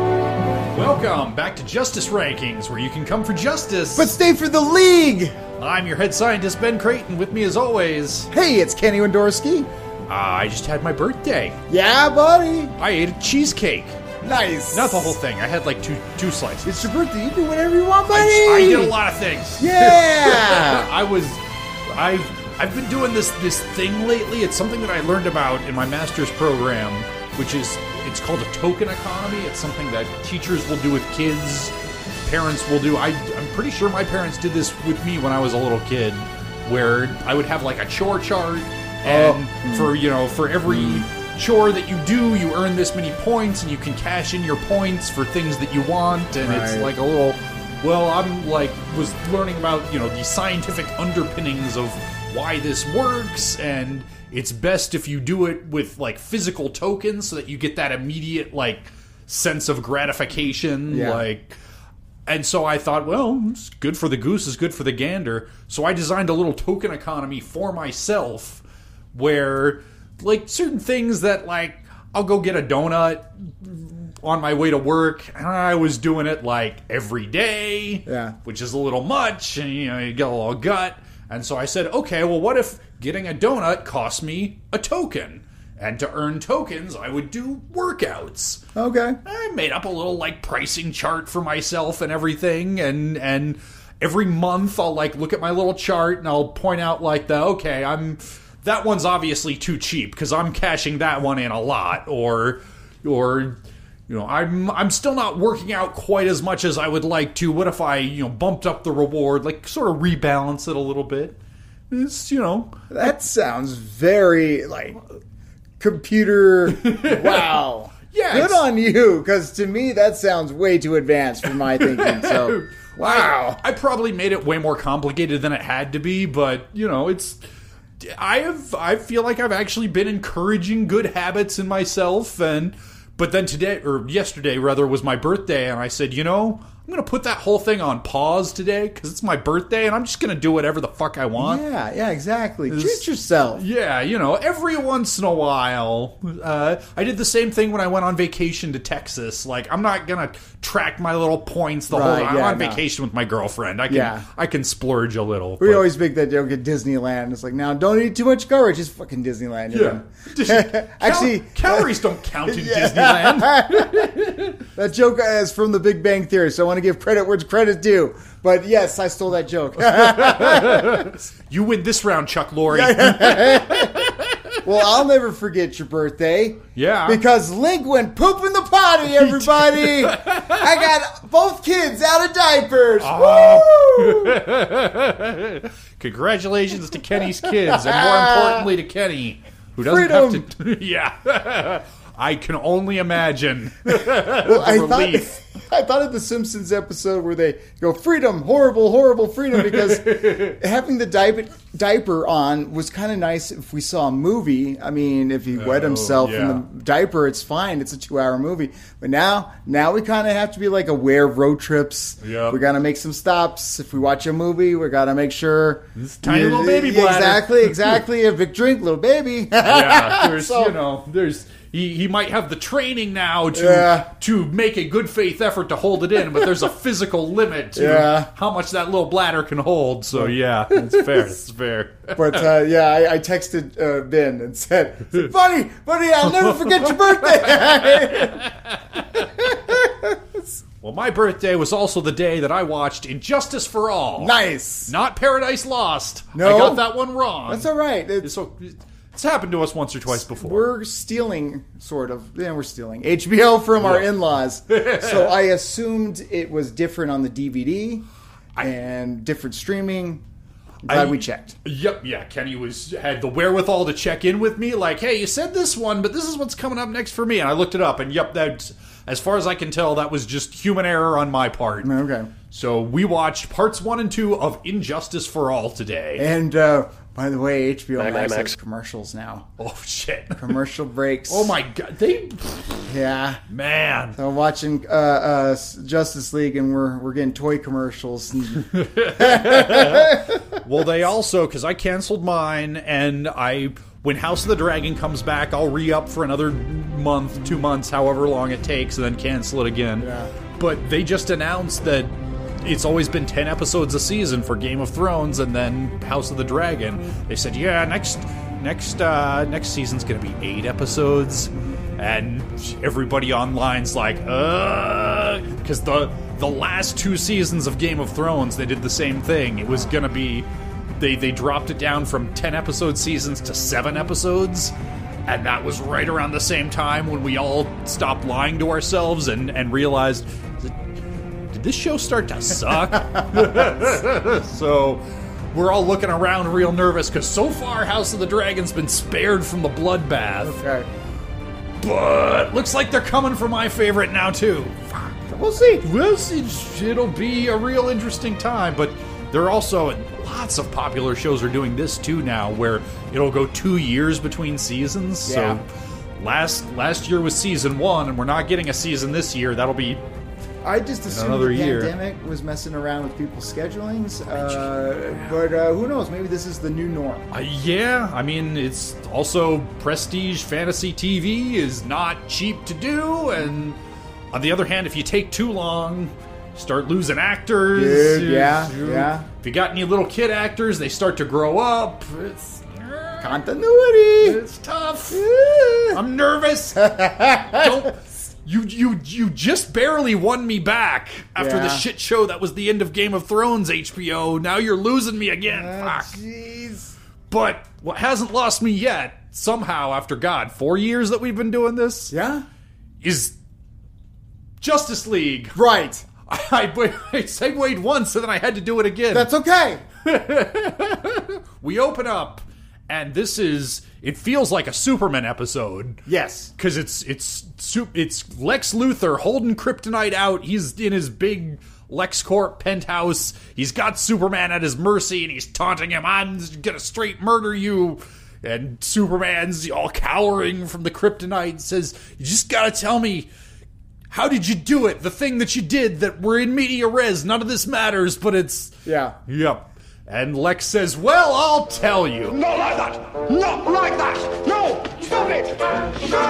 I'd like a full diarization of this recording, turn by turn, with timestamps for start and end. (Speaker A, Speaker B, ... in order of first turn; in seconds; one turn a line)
Speaker A: 0.7-4.1
Speaker B: 3.9-5.3
Speaker A: 5.6-8.3
Speaker B: 8.3-9.7
Speaker A: 10.1-11.6
Speaker B: 11.7-12.7
Speaker A: 12.8-14.0
Speaker B: 14.2-15.2
Speaker A: 14.7-16.9
Speaker B: 16.6-19.0
Speaker A: 18.1-31.7
Speaker B: 19.6-20.9
Speaker A: 32.2-61.5
Speaker B: 39.0-39.9
Speaker B: 40.7-41.0
Speaker B: 46.4-46.9
Speaker B: 60.9-61.2
Speaker A: 62.2-68.6
Speaker A: 69.1-88.6
Speaker B: 78.0-78.3
Speaker B: 88.7-89.2
Speaker A: 89.2-111.3
Speaker A: 111.9-112.8
Speaker B: 112.9-115.0
Speaker B: 115.8-123.6
Speaker A: 116.7-117.6
Speaker A: 118.1-118.6
Speaker A: 121.8-127.4
Speaker A: 128.0-141.6
Speaker B: 141.3-143.6
Speaker A: 142.7-155.9
Speaker B: 151.9-152.8
Speaker B: 153.9-154.3
Speaker B: 155.6-164.1
Speaker A: 159.7-164.6
Speaker B: 164.7-171.3
Speaker A: 170.0-174.6
Speaker B: 172.7-174.1
Speaker B: 174.6-184.4
Speaker A: 176.7-177.2
Speaker A: 179.1-180.7
Speaker A: 183.0-195.3
Speaker B: 187.4-188.7
Speaker B: 189.8-190.5
Speaker B: 193.9-220.8
Speaker A: 199.6-200.6
Speaker A: 205.5-206.6
Speaker A: 212.2-212.6
Speaker A: 215.9-218.0
Speaker A: 219.6-232.5
Speaker B: 223.5-224.1
Speaker B: 226.2-226.5
Speaker B: 227.7-228.3
Speaker B: 230.1-231.2
Speaker B: 232.1-238.4
Speaker A: 236.6-239.3
Speaker B: 239.2-240.5
Speaker A: 240.8-244.3
Speaker B: 244.2-244.9
Speaker A: 244.8-247.7
Speaker B: 246.3-246.9
Speaker B: 247.5-248.3
Speaker A: 248.2-250.6
Speaker B: 250.1-258.1
Speaker A: 253.8-254.1
Speaker A: 254.7-255.3
Speaker B: 258.6-260.2
Speaker B: 260.8-261.6
Speaker A: 260.9-271.9
Speaker B: 271.8-272.3
Speaker A: 272.5-276.2
Speaker B: 276.2-279.5
Speaker A: 279.6-280.4
Speaker B: 280.3-281.6
Speaker A: 281.3-282.9
Speaker B: 282.9-283.4
Speaker A: 283.5-284.2
Speaker B: 284.1-290.4
Speaker A: 288.6-302.1
Speaker B: 300.0-300.3
Speaker A: 302.6-320.4
Speaker A: 321.0-324.7
Speaker A: 325.2-330.7
Speaker A: 331.5-340.6
Speaker B: 333.2-333.7
Speaker B: 340.4-340.9
Speaker A: 341.8-345.1
Speaker B: 345.3-345.9
Speaker A: 345.8-360.0
Speaker B: 355.2-355.6
Speaker B: 360.6-367.3
Speaker A: 361.1-361.9
Speaker A: 367.3-373.8
Speaker A: 374.3-383.4
Speaker B: 377.7-379.2
Speaker B: 383.2-384.4
Speaker A: 384.2-385.2
Speaker B: 385.1-386.0
Speaker A: 385.9-396.1
Speaker B: 386.8-387.9
Speaker B: 391.4-391.8
Speaker B: 395.4-396.9
Speaker A: 397.3-402.1
Speaker B: 402.1-402.4
Speaker A: 403.0-403.3
Speaker A: 404.6-405.6
Speaker B: 405.5-406.1
Speaker A: 406.3-409.3
Speaker B: 409.1-409.8
Speaker A: 410.0-416.0
Speaker B: 416.1-416.5
Speaker A: 416.6-433.3
Speaker A: 434.1-442.6
Speaker B: 438.8-439.2
Speaker C: 442.8-445.5